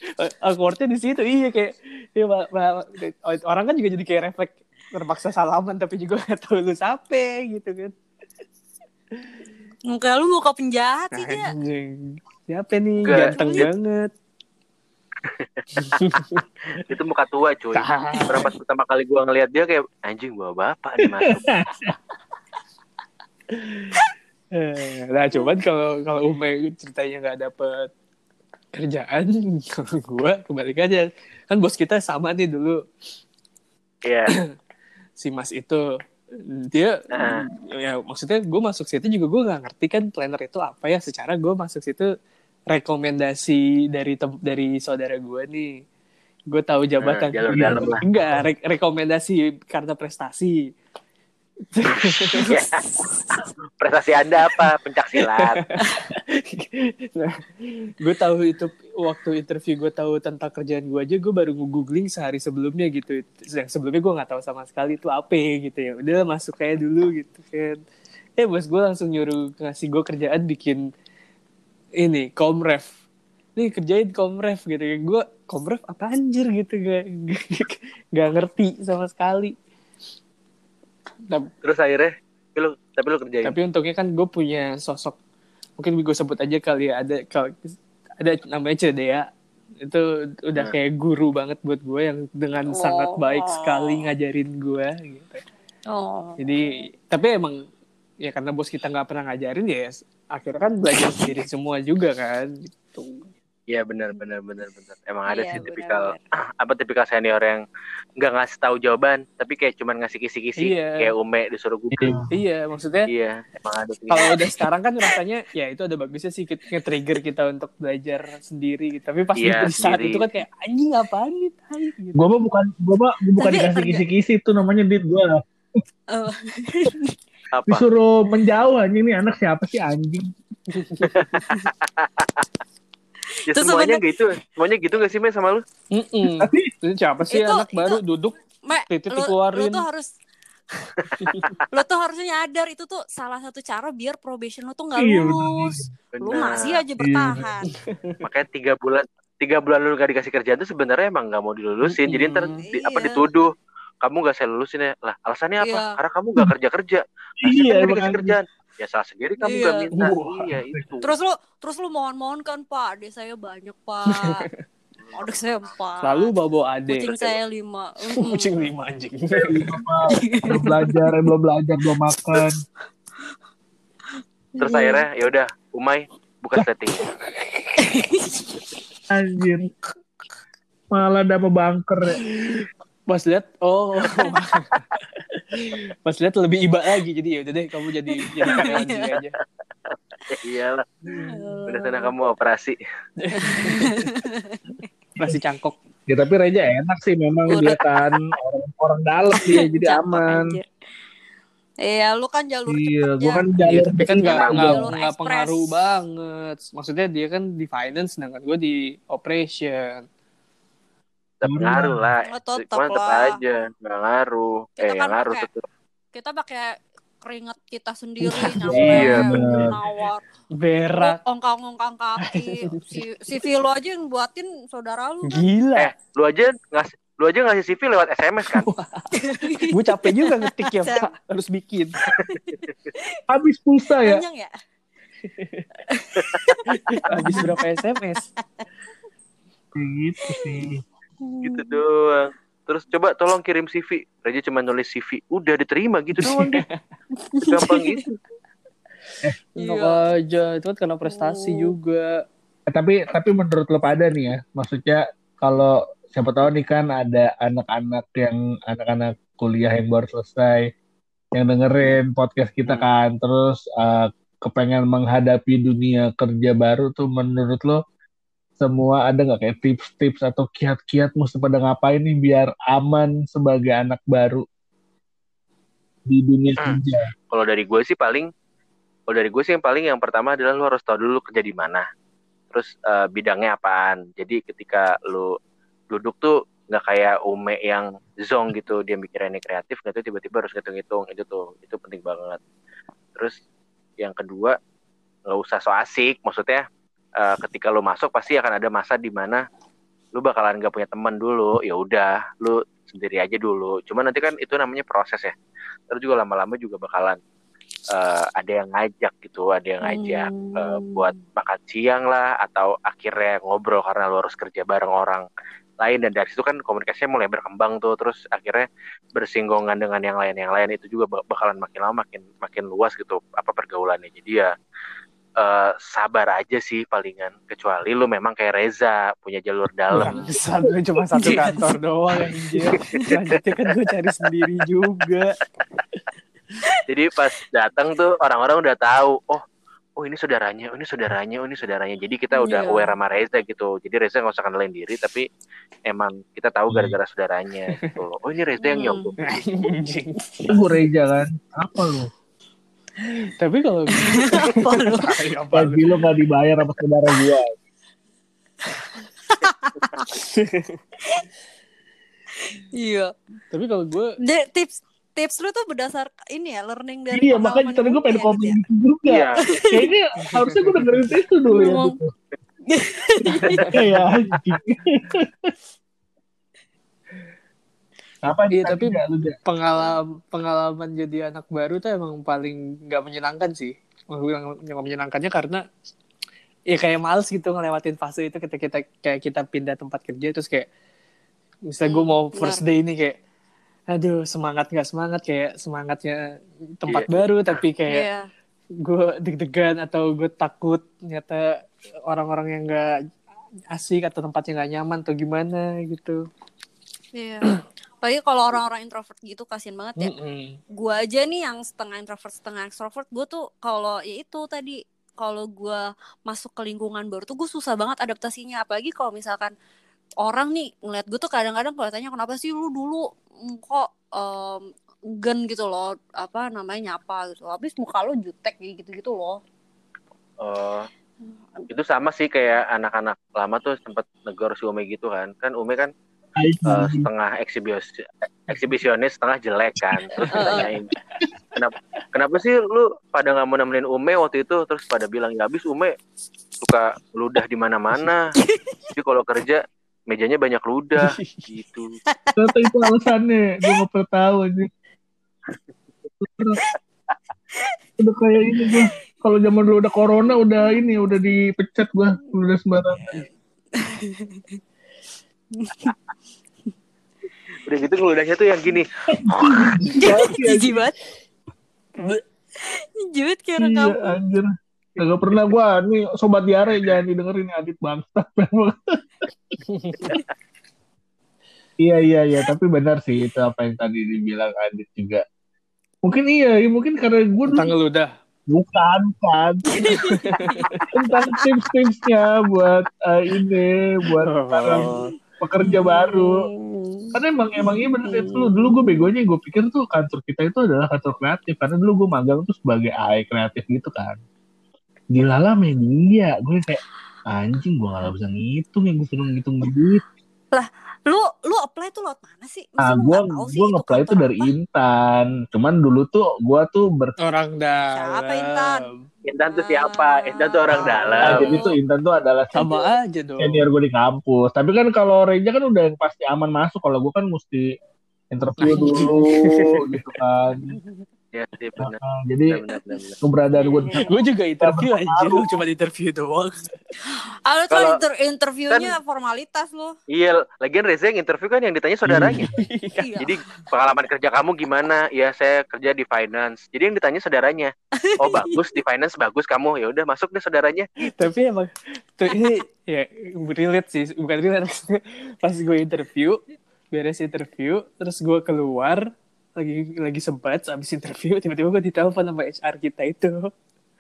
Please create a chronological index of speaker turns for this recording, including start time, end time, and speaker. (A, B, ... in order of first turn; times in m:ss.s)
0:00.2-0:08.0 A
0:09.9-0:11.5 B
0:11.1-0:14.1 A
0:13.0-0:13.7 C
0:13.1-0:13.7 B
0:15.2-0:15.6 C
0:15.8-0:16.8 A
0:16.7-0:21.6 C
0:17.8-0:18.5 A
0:21.2-0:22.0 D
0:23.5-0:24.0 A
0:24.5-0:27.9 A
0:28.8-0:32.8 A
0:34.1-0:34.3 C
0:35.2-0:35.8 A
0:36.5-0:42.1 A
0:37.1-0:37.4 C
0:42.7-0:45.8 A
0:46.5-0:50.7 A
0:47.0-0:48.0 C
0:47.5-0:48.4 D
0:51.7-0:52.5 A
0:52.4-0:52.8 C
0:52.5-0:53.4 B
0:53.8-0:55.6 C
0:55.2-1:07.8 A
1:08.4-1:10.8 A
1:12.0-1:12.9 A
1:13.6-1:19.6 A
1:21.6-1:23.6 C
1:23.4-1:25.2 A
1:25.8-1:29.3 A
1:29.8-1:35.4 A
1:32.8-1:34.1 B
1:35.9-1:36.8 B
1:36.4-1:37.6 A
1:38.2-1:43.3 A
1:43.7-1:47.6 C
1:45.3-1:46.2 B
1:48.2-1:52.2 C
1:50.6-1:51.1 A
1:51.9-1:52.3 D
1:52.3-1:53.1 A
1:53.1-1:54.4 C
1:54.1-2:02.3 A
1:59.4-2:00.3 C
2:02.2-2:05.8 D
2:03.4-2:04.0 B
2:06.1-2:07.2 B
2:07.5-2:07.8 C
2:07.7-2:10.3 D
2:10.7-2:11.4 A
2:11.1-2:12.4 C
2:13.4-2:14.0 B
2:13.5-2:15.6 C
2:15.9-2:18.4 A
2:16.3-2:16.7 D
2:17.3-2:18.0 B
2:18.6-2:20.1 B
2:18.9-2:19.9 A
2:21.2-2:21.6 A
2:21.7-2:27.7 B
2:25.0-2:25.9 D
2:26.1-2:26.8 C
2:27.0-2:27.5 D
2:27.7-2:28.2 A
2:28.2-2:33.5 C
2:31.9-2:32.6 A
2:32.5-2:33.3 B
2:34.0-2:41.1 C
2:35.6-2:35.9 B
2:37.4-2:38.4 D
2:39.4-2:39.9 B
2:40.0-2:40.6 A
2:40.3-2:40.9 D
2:41.0-2:44.5 B
2:44.1-2:44.6 A
2:45.0-2:45.7 C
2:45.2-2:46.3 B
2:46.0-2:47.1 A
2:46.9-2:48.5 B
2:47.0-2:47.4 C
2:48.1-2:49.8 A
2:49.4-2:52.6 D
2:50.2-2:51.1 B
2:54.6-2:55.0 B
2:54.6-2:57.1 C
2:57.1-2:57.7 A
2:57.8-2:58.6 B
2:59.1-2:59.7 D
3:00.9-3:02.2 D
3:02.5-3:09.4 A
3:08.1-3:09.2 B
3:09.9-3:10.8 C
3:11.1-3:12.1 B
3:11.1-3:11.4 A
3:11.7-3:12.8 C
3:13.2-3:14.1 A
3:13.4-3:14.9 B
3:15.2-3:15.8 A
3:16.1-3:20.5 D
3:17.5-3:18.0 B
3:19.3-3:20.7 B
3:21.8-3:23.4 B
3:22.7-3:24.8 D
3:23.7-3:30.1 A
3:23.7-3:24.7 C
3:24.2-3:25.8 B
3:31.4-3:35.6 C
3:31.4-3:32.1 D
3:32.2-3:33.4 B
3:34.8-3:35.5 B
3:36.1-3:40.2 B
3:38.3-3:39.5 A
3:38.6-3:39.8 D
3:38.7-3:39.3 C
3:40.6-3:41.2 A
3:41.0-3:45.5 B
3:42.2-3:43.0 A
3:45.3-3:45.9 A
3:45.8-3:48.7 C
3:48.5-3:52.0 A
3:49.2-3:51.1 B
3:52.1-3:53.2 B
3:53.3-3:54.2 D
3:54.0-3:54.5 B
3:55.2-3:55.7 A
3:55.9-3:56.7 B
3:56.7-3:58.3 A
3:57.1-3:57.5 D
3:57.4-3:58.6 B
3:59.8-4:00.8 D
4:00.2-4:00.6 B
4:01.2-4:01.8 B
4:01.4-4:06.6 C
4:06.2-4:06.8 A
4:07.2-4:08.0 B
4:07.5-4:08.2 C
4:09.6-4:10.0 B
4:09.6-4:12.2 A
4:11.1-4:11.7 B
4:12.7-4:20.7 D
4:21.4-4:27.8 D
4:28.6-4:34.4 D
4:36.1-4:37.1 D
4:37.3-4:38.3 C
4:39.1-4:41.8 C
4:42.5-4:45.3 C
4:45.9-4:52.4 C
4:54.0-4:54.6 C
4:55.3-4:56.6 C
4:57.2-4:59.4 C
5:00.2-5:05.3 C
5:05.9-5:07.2 C
5:07.9-5:15.2 C
5:09.8-5:11.2 B
5:15.8-5:18.6 C
5:19.2-5:24.5 C
5:25.4-5:30.3 C
5:29.9-5:30.2 D
5:30.0-5:35.4 A
5:31.2-5:31.6 B
5:32.7-5:33.7 C
5:36.9-5:39.4 C
5:40.0-5:45.3 C
5:42.4-5:42.9 B
5:45.9-5:49.4 C
5:46.7-5:47.0 D
5:48.6-5:49.1 B
5:49.2-5:50.6 A
5:50.5-5:52.1 D
5:53.4-5:56.0 A
5:53.9-5:55.2 B
5:55.5-5:57.5 D
5:58.7-6:00.1 B
6:00.1-6:00.8 A
6:02.4-6:03.1 B
6:03.5-6:04.2 A
6:04.2-6:08.6 B
6:07.1-6:12.1 D
6:09.1-6:09.4 C
6:09.4-6:09.8 B
6:10.2-6:11.2 A
6:11.5-6:12.0 B
6:12.7-6:13.6 B
6:13.4-6:14.1 A
6:13.7-6:15.5 D
6:18.2-6:19.4 D
6:18.5-6:25.6 A
6:26.7-6:30.7 A
6:31.7-6:33.2 A
6:31.8-6:32.6 B
6:33.9-6:36.2 A
6:36.8-6:38.1 A
6:36.9-6:37.2 C
6:37.9-6:38.3 B
6:38.8-6:42.9 A
6:43.7-6:46.2 A
6:47.2-6:50.2 B
6:50.0-6:50.6 A
6:50.8-6:59.5 B
7:00.2-7:04.7 B
7:05.2-7:09.4 B
7:10.4-7:10.9 C
7:11.7-7:15.9 C
7:16.4-7:17.1 D
7:16.7-7:20.9 C
7:20.3-7:20.7 B
7:21.5-7:25.9 C
7:26.6-7:28.3 C
7:28.4-7:28.8 B
7:29.0-7:32.0 C
7:31.0-7:31.4 A
7:32.1-7:32.4 B
7:32.4-7:34.7 D
7:36.2-7:36.6 D
7:38.0-7:43.2 D
7:40.6-7:40.9 B
7:43.8-7:44.6 B
7:45.6-7:45.9 B
7:47.6-7:48.9 C
7:49.1-7:50.8 D
7:49.4-7:49.7 C
7:50.0-7:50.9 B
7:52.6-7:54.2 B
7:53.6-7:59.6 D
7:59.7-8:00.2 A
8:01.8-8:05.2 D
8:06.0-8:07.7 D
8:07.5-8:08.1 A
8:08.5-8:10.1 D
8:09.7-8:11.4 B
8:09.9-8:10.8 A
8:10.9-8:16.4 D
8:14.2-8:15.1 A
8:15.6-8:17.2 B
8:17.2-8:24.2 D
8:18.0-8:19.1 B
8:25.1-8:30.0 D
8:30.5-8:34.5 B
8:32.8-8:37.2 D
8:37.2-8:39.1 A
8:37.9-8:38.8 B
8:39.3-8:41.6 C
8:39.5-8:41.8 B
8:40.7-8:41.5 A
8:41.2-8:47.7 D
8:42.5-8:43.6 A
8:48.3-8:50.8 D
8:48.6-8:49.9 A
8:51.3-8:52.0 C
8:51.8-8:52.6 D
8:52.5-8:53.2 C
8:53.2-8:54.0 D
8:53.6-8:54.1 B
8:53.9-8:56.7 A
8:54.6-8:55.5 D
8:57.0-8:59.9 B
8:57.7-8:58.0 C
9:00.1-9:02.5 C
9:02.1-9:02.6 D
9:02.5-9:03.2 A
9:03.0-9:03.5 B
9:03.2-9:10.9 C
9:08.0-9:08.6 B
9:11.0-9:16.4 A
9:12.3-9:12.6 B
9:16.9-9:23.5 A